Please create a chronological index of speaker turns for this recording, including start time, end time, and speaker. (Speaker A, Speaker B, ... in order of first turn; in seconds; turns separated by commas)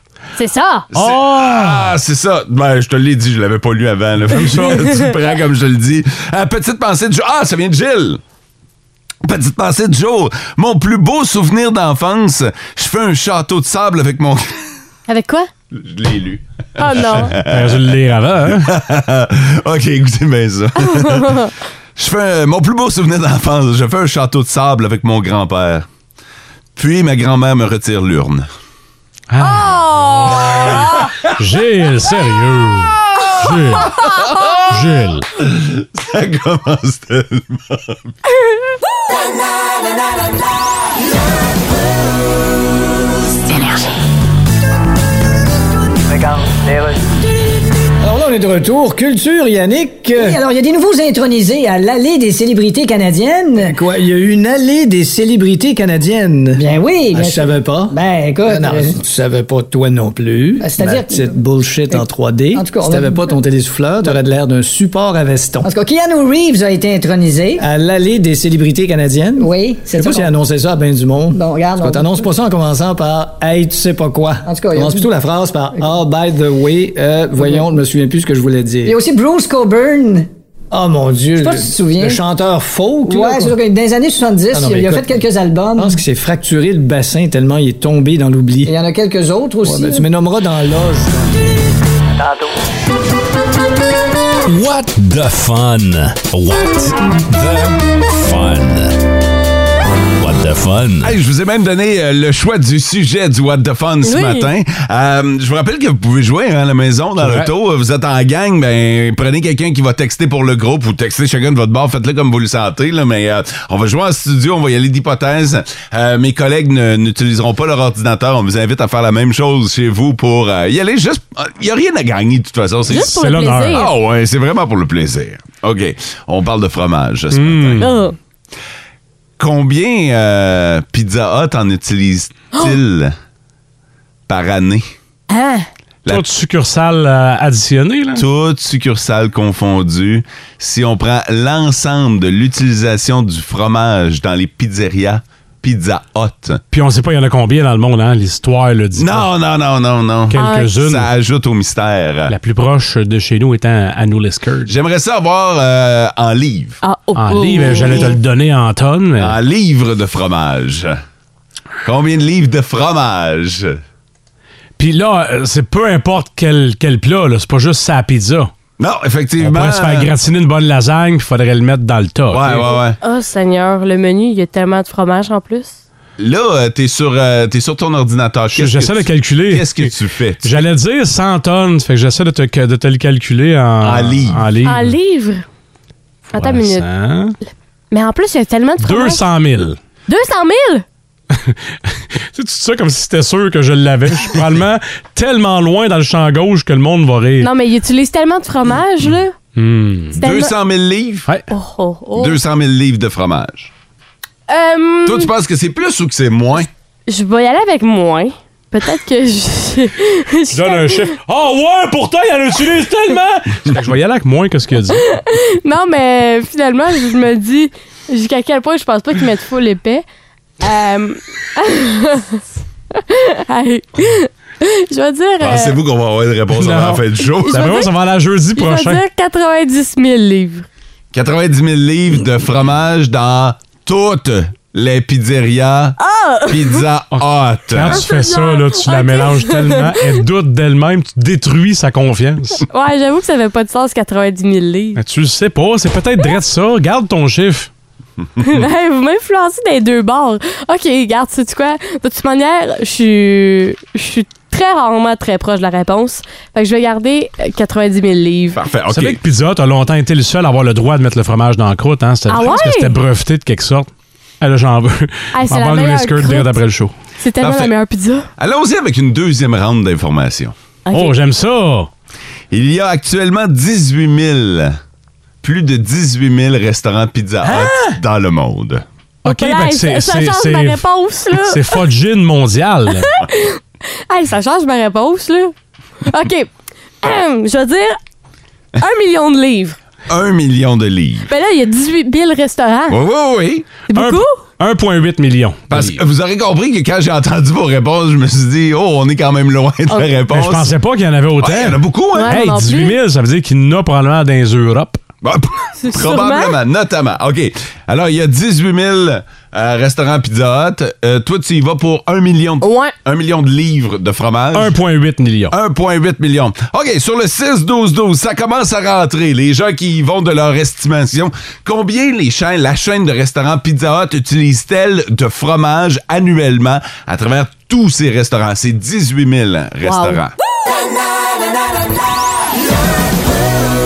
Speaker A: 0.4-0.9, Speaker B: 0.9-2.0, Speaker C: 0.9-8.2, Speaker B: 4.4-4.9, Speaker C: 9.2-14.7, Speaker A: 15.1-15.5, Speaker C: 15.7-17.9, Speaker A: 16.8-17.3, Speaker B: 17.2-18.7, Speaker C: 18.5-21.4, Speaker A: 20.8-21.5, Speaker C: 22.0-25.9, Speaker C: 26.8-28.5, Speaker B: 29.3-29.8, Speaker A: 29.4-31.1, Speaker C: 30.9-31.3, Speaker B: 31.4-34.0, Speaker C: 33.1-34.7, Speaker B: 34.7-35.3, Speaker C: 35.4-38.1, Speaker D: 48.0-50.4, Speaker E: 50.1-53.8, Speaker D: 53.6-65.7, Speaker E: 56.5-59.0, Speaker E: 60.6-63.4, Speaker E: 65.6-67.7, Speaker D: 67.6-79.0, Speaker E: 69.4-70.3, Speaker E: 71.3-72.3, Speaker E: 74.5-75.1, Speaker E: 78.8-80.3, Speaker D: 80.7-83.6, Speaker E: 81.3-82.2, Speaker E: 83.1-86.0, Speaker D: 84.5-85.1, Speaker D: 85.8-88.8, Speaker E: 88.7-90.1, Speaker D: 89.6-91.4, Speaker F: 94.5-99.0, Speaker F: 100.2-101.2, Speaker C: 101.0-123.1, Speaker A: 104.0-104.5, Speaker B: 107.2-107.5, Speaker A: 122.9-123.9, Speaker B: 122.9-123.8, Speaker C: 123.7-128.0, Speaker B: 127.3-127.9, Speaker A: 127.8-128.2, Speaker C: 129.4-133.2, Speaker C: 134.3-134.9, Speaker A: 135.3-135.7, Speaker B: 136.1-138.2, Speaker C: 138.2-146.6, Speaker B: 146.7-149.3, Speaker C: 149.0-152.3, Speaker B: 150.3-151.1, Speaker A: 150.4-150.7, Speaker B: 152.3-154.7, Speaker C: 154.7-156.8, Speaker A: 156.8-158.1, Speaker B: 157.2-159.4, Speaker C: 157.7-158.2, Speaker C: 159.2-161.0, Speaker C: 161.8-163.8, Speaker B: 164.8-168.5, Speaker C: 168.8-170.1, Speaker B: 169.4-172.7, Speaker C: 172.3-173.0, Speaker A: 172.7-175.8, Speaker C: 176.2-180.7, Speaker B: 178.5-185.0, Speaker C: 183.8-184.5, Speaker A: 184.7-185.4, Speaker A: 186.3-186.8, Speaker B: 186.4-187.4, Speaker A: 187.9-189.2, Speaker B: 188.8-189.8, Speaker A: 190.1-190.8, Speaker B: 191.3-197.5, Speaker A: 197.4-199.3, Speaker B: 199.6-200.2, Speaker A: 200.2-200.6, Speaker C: 200.2-201.3, Speaker A: 201.5-202.4, Speaker C: 202.2-203.7, Speaker A: 204.5-205.3, Speaker C: 205.1-206.7, Speaker A: 207.1-211.0, Speaker B: 210.5-215.0, Speaker A: 215.0-220.0, Speaker A: 220.6-222.4, Speaker A: 222.9-225.8, Speaker C: 225.4-227.8, Speaker B: 226.6-229.0, Speaker A: 227.4-227.9, Speaker A: 228.6-230.7, Speaker C: 231.1-238.0, Speaker A: 236.0-236.8, Speaker B: 237.1-242.7, Speaker A: 237.9-240.1, Speaker A: 242.7-245.0, Speaker B: 245.0-247.7, Speaker A: 248.4-258.6, Speaker C: 258.5-259.2, Speaker B: 258.9-263.9, Speaker A: 262.3-263.0, Speaker B: 264.4-266.9, Speaker A: 265.4-266.5, Speaker A: 267.2-268.3, Speaker C: 267.4-267.7, Speaker C: 268.4-270.6, Speaker A: 270.9-271.1, Speaker B: 270.9-271.9, Speaker C: 272.5-274.8, Speaker C: 275.4-278.9, Speaker B: 277.4-278.0, Speaker B: 279.2-283.1, Speaker A: 279.2-281.7, Speaker A: 283.0-285.5, Speaker A: 286.1-286.5, Speaker A: 287.0-288.0, Speaker A: 288.8-289.8, Speaker C: 290.1-291.3, Speaker A: 291.3-293.0, Speaker C: 292.9-293.7, Speaker A: 293.9-294.4, Speaker B: 293.9-296.0, Speaker C: 295.7-300.7, Speaker B: 300.3-305.0, Speaker C: 301.4-302.4, Speaker A: 302.1-303.0, Speaker C: 305.2-314.8, Speaker A: 305.8-306.6, Speaker A: 312.6-312.9, Speaker B: 314.5-315.6, Speaker C: 315.5-330.3, Speaker A: 329.8-330.2